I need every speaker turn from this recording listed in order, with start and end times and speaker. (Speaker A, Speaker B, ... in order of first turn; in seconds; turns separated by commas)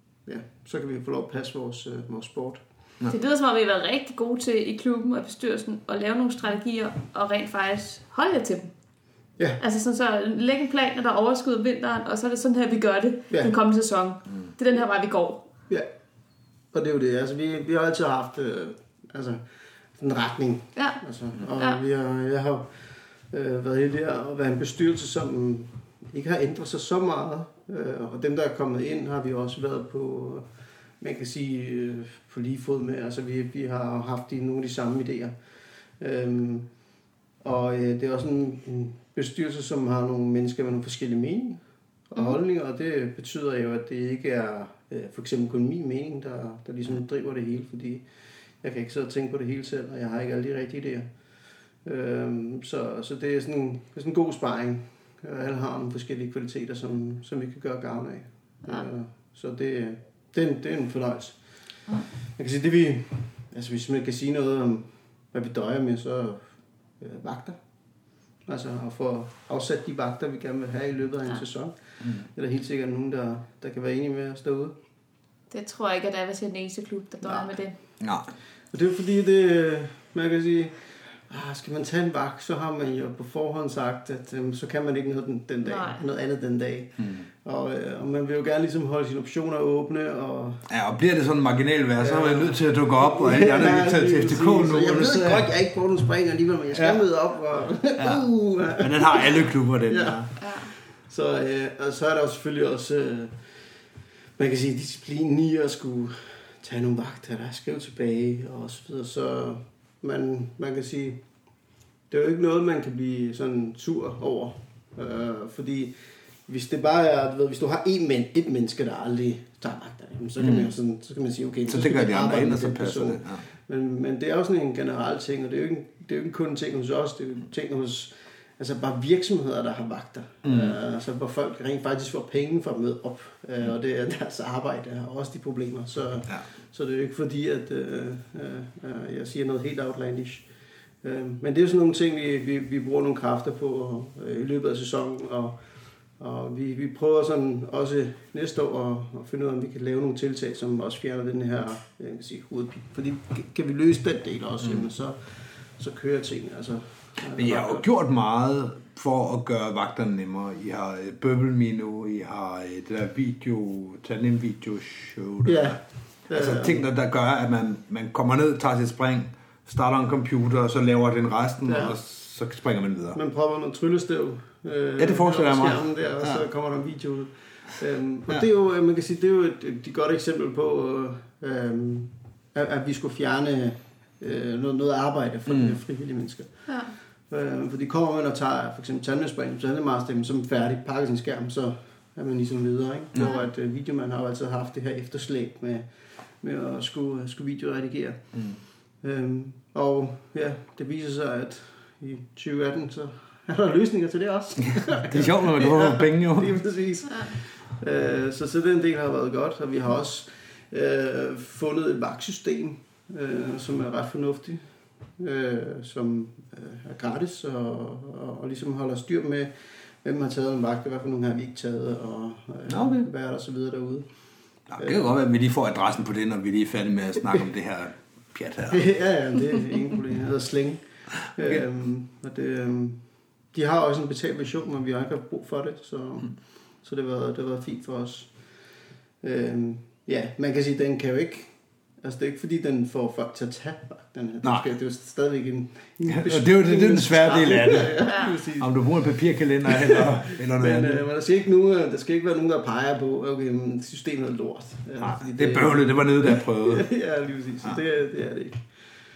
Speaker A: 0.3-2.6, Speaker B: 3.1-8.7, Speaker B: 9.6-15.4, Speaker A: 16.7-19.4, Speaker A: 20.0-22.7, Speaker A: 23.3-30.4, Speaker A: 31.0-35.3, Speaker A: 36.0-36.7, Speaker A: 37.4-41.6, Speaker A: 42.1-48.0, Speaker A: 48.6-51.1, Speaker A: 51.9-61.4, Speaker A: 62.4-66.4, Speaker A: 67.0-67.6, Speaker A: 68.5-74.8, Speaker B: 75.5-77.7, Speaker A: 77.2-77.6, Speaker C: 78.0-78.3, Speaker A: 78.7-80.8, Speaker A: 81.3-90.6, Speaker B: 85.6-86.0, Speaker C: 90.7-95.5, Speaker A: 92.0-103.4, Speaker C: 96.7-97.0, Speaker C: 98.0-100.3, Speaker B: 100.4-100.7, Speaker A: 104.4-111.2, Speaker A: 112.1-116.0, Speaker A: 116.5-140.4, Speaker C: 120.4-120.7, Speaker C: 121.7-123.4, Speaker C: 130.4-130.8, Speaker A: 141.0-145.6, Speaker A: 146.2-155.2, Speaker A: 155.8-157.8, Speaker C: 157.3-165.8, Speaker A: 165.4-166.8, Speaker C: 166.3-173.2, Speaker A: 171.6-172.0, Speaker A: 173.1-186.5, Speaker C: 175.0-176.4, Speaker C: 185.5-185.8, Speaker A: 187.3-195.9, Speaker A: 196.4-198.3, Speaker A: 199.0-214.6, Speaker C: 205.1-206.6, Speaker A: 215.2-219.5, Speaker A: 220.0-224.1, Speaker C: 222.7-223.1, Speaker C: 224.7-228.9, Speaker A: 224.8-225.1, Speaker A: 228.7-233.0, Speaker A: 233.5-238.3, Speaker A: 239.2-241.5, Speaker A: 242.0-248.7, Speaker C: 244.4-244.7, Speaker C: 246.1-251.0, Speaker B: 248.1-248.3, Speaker A: 249.7-258.6, Speaker C: 255.0-256.9